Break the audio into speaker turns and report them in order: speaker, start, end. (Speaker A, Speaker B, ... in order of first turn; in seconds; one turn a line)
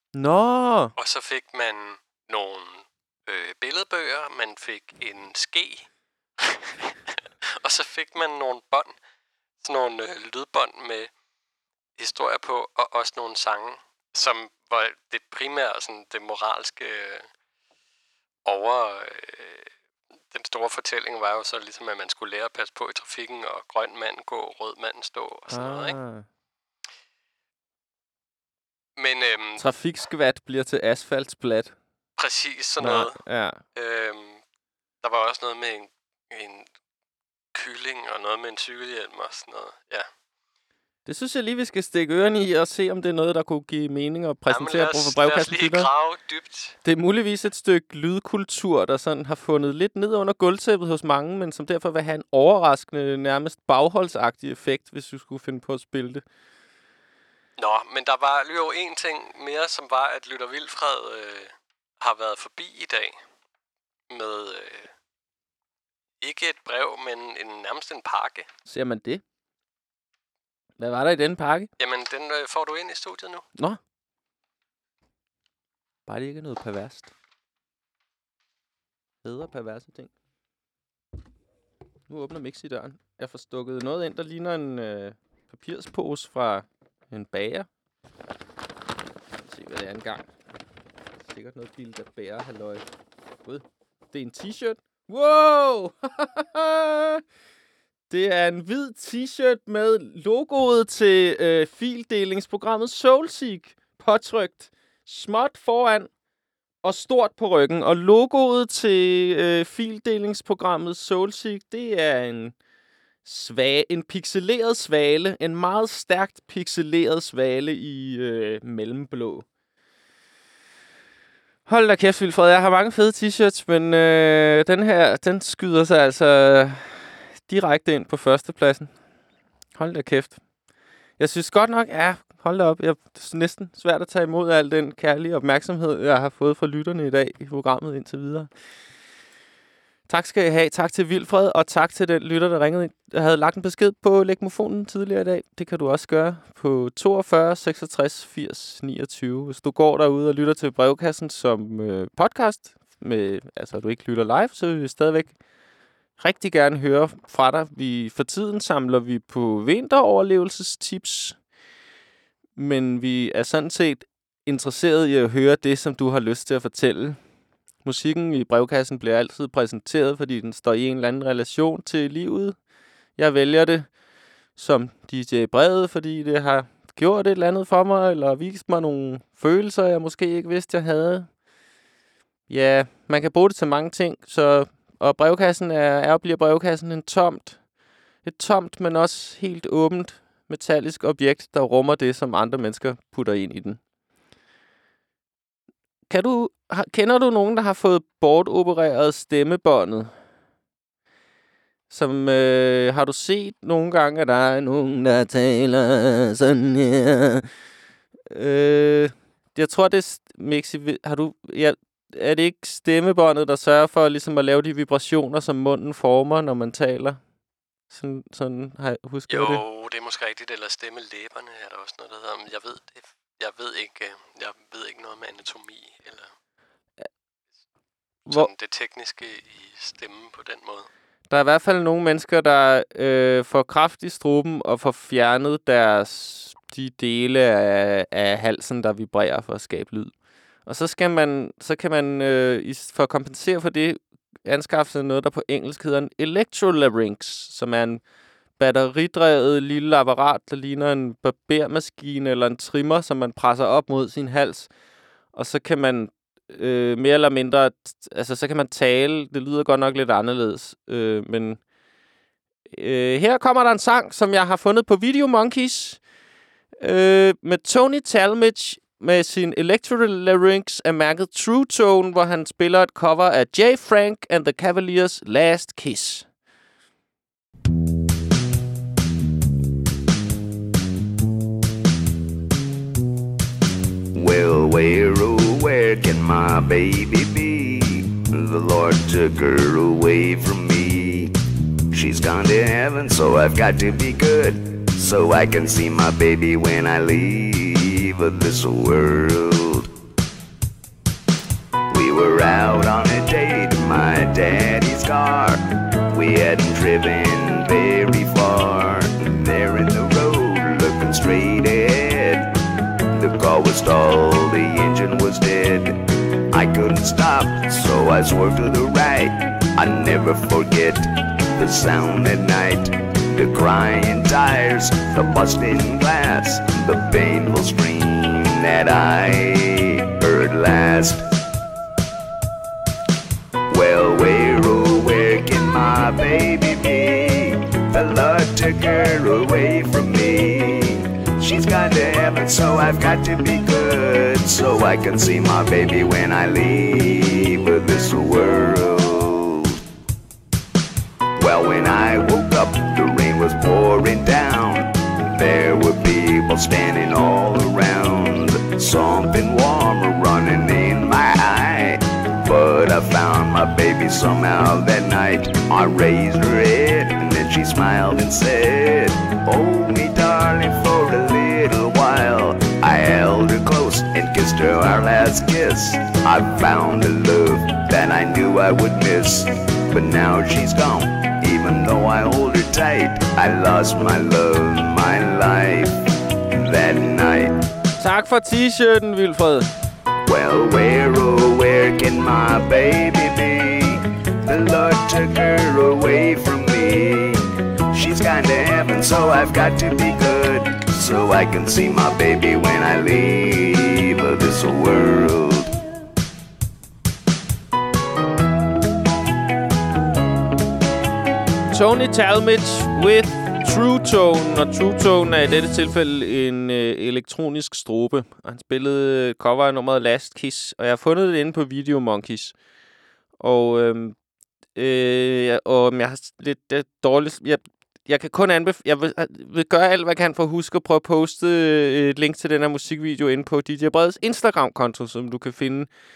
Speaker A: 0.1-0.9
Speaker B: 1.0-5.9
Speaker B: 7.6-8.9
Speaker B: 9.6-11.1
Speaker B: 12.0-17.3
Speaker B: 18.4-19.7
Speaker B: 20.3-26.0
Speaker A: 25.5-26.3
Speaker B: 29.0-29.7
Speaker A: 29.6-31.8
Speaker B: 32.2-33.2
Speaker A: 32.8-33.6
Speaker B: 33.8-34.4
Speaker B: 35.0-36.7
Speaker B: 37.5-40.1
Speaker A: 41.1-45.9
Speaker B: 44.5-46.8
Speaker A: 46.8-56.2
Speaker B: 57.6-63.2
Speaker B: 64.1-64.9
Speaker B: 66.2-68.5
Speaker A: 68.7-69.2
Speaker A: 70.8-71.7
Speaker B: 71.8-73.5
Speaker A: 76.1-77.1
Speaker A: 79.2-80.1
Speaker A: 82.1-87.7
Speaker A: 89.5-90.3
Speaker A: 91.2-92.8
Speaker A: 93.5-97.2
Speaker A: 98.1-106.1
Speaker A: 106.8-112.5
Speaker A: 113.2-119.5
Speaker A: 121.7-128.9
Speaker A: 129.8-130.4
Speaker A: 131.2-138.5
Speaker A: 140.1-155.4
Speaker A: 156.2-161.4
Speaker A: 162.6-167.2
Speaker A: 167.8-172.6
Speaker A: 173.2-173.9
Speaker A: 174.6-181.3
Speaker A: 182.5-187.6
Speaker A: 188.2-193.8
Speaker A: 196.1-200.1
Speaker A: 201.9-207.5
Speaker A: 208.3-217.2
Speaker A: 217.9-219.6
Speaker B: 219.3-226.3
Speaker B: 228.3-230.9
Speaker A: 231.3-240.1
Speaker A: 240.7-248.0
Speaker A: 248.6-254.7
Speaker A: 255.3-261.6
Speaker A: 262.7-266.0
Speaker A: 266.8-276.3
Speaker C: 284.1-291.3
Speaker C: 291.9-299.9
Speaker C: 301.9-312.5
Speaker C: 313.1-316.0
Speaker C: 316.5-331.2
Speaker C: 333.7-349.8
Speaker C: 351.4-385.9
Speaker C: 386.5-387.6
Speaker A: 388.0-389.7
Speaker C: 390.3-405.7
Speaker A: 411.7-422.6
Speaker A: 423.4-424.2
Speaker A: 424.8-435.9